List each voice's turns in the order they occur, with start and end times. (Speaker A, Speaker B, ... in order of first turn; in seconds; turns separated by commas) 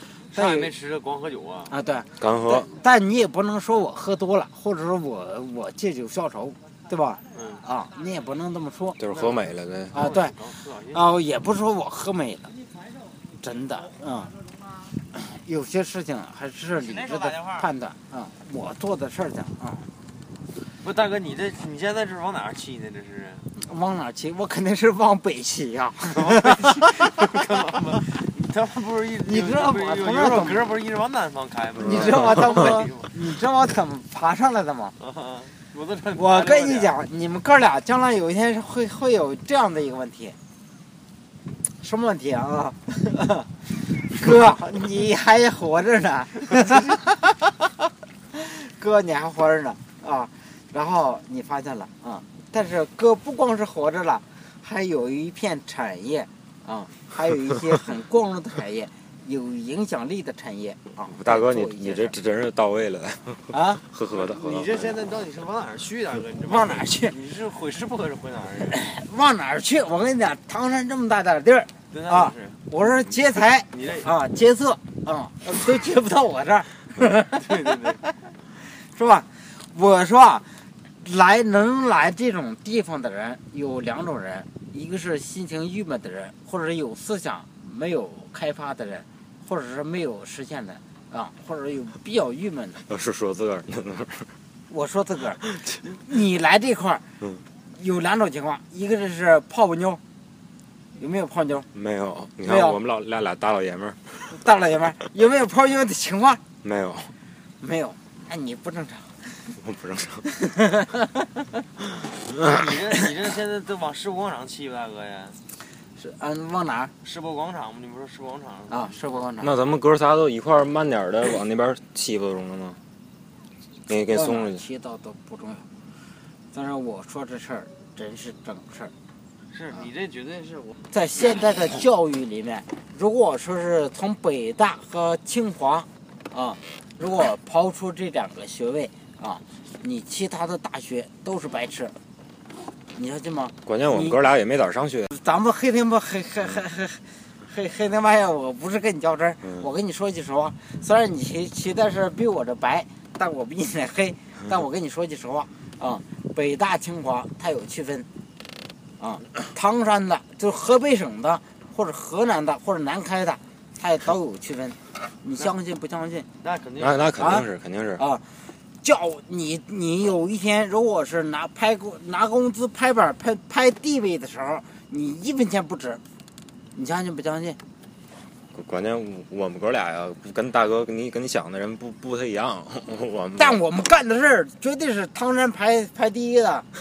Speaker A: 0.3-1.8, Speaker B: 0.3-0.7, Speaker B: 1.7-9.0, Speaker C: 2.2-2.7, Speaker A: 7.3-7.6, Speaker C: 9.0-10.0, Speaker A: 9.1-11.2, Speaker B: 9.9-10.4, Speaker B: 10.9-12.5, Speaker B: 13.4-14.3, Speaker B: 15.1-19.9, Speaker A: 16.7-17.7, Speaker A: 20.8-23.5, Speaker B: 23.5-27.4, Speaker A: 26.1-33.1, Speaker B: 29.3-30.6, Speaker B: 31.8-34.9, Speaker C: 31.9-32.5, Speaker A: 35.0-36.9, Speaker B: 36.1-40.4, Speaker B: 41.8-47.4, Speaker B: 48.3-62.1, Speaker C: 61.1-64.9, Speaker B: 63.5-63.8, Speaker A: 64.1-68.8, Speaker B: 66.5-67.1, Speaker B: 68.7-77.4, Speaker A: 71.9-72.6, Speaker A: 73.7-74.1, Speaker A: 77.4-78.0, Speaker B: 78.6-80.5, Speaker B: 81.0-92.8, Speaker C: 92.8-94.3, Speaker B: 94.7-97.0, Speaker C: 95.4-95.8, Speaker B: 97.7-100.0, Speaker B: 101.0-101.7, Speaker C: 101.7-104.4, Speaker B: 102.4-102.8, Speaker B: 104.3-106.4, Speaker C: 106.6-107.1, Speaker B: 107.6-109.5, Speaker C: 109.6-110.3, Speaker B: 110.3-111.5, Speaker A: 112.3-115.4, Speaker B: 116.0-116.9, Speaker A: 117.0-119.1, Speaker B: 118.7-119.5, Speaker C: 119.4-122.8, Speaker C: 123.9-124.6, Speaker B: 124.1-125.7, Speaker B: 126.5-128.9, Speaker A: 129.5-130.8, Speaker B: 130.9-141.9, Speaker B: 142.9-144.2, Speaker C: 143.6-145.1, Speaker B: 145.1-158.1, Speaker B: 159.0-166.2, Speaker A: 166.4-167.2, Speaker C: 166.8-168.0, Speaker B: 167.2-167.4, Speaker B: 168.0-168.2, Speaker B: 168.8-176.0, Speaker B: 176.7-177.6, Speaker C: 178.5-183.6, Speaker B: 183.4-186.7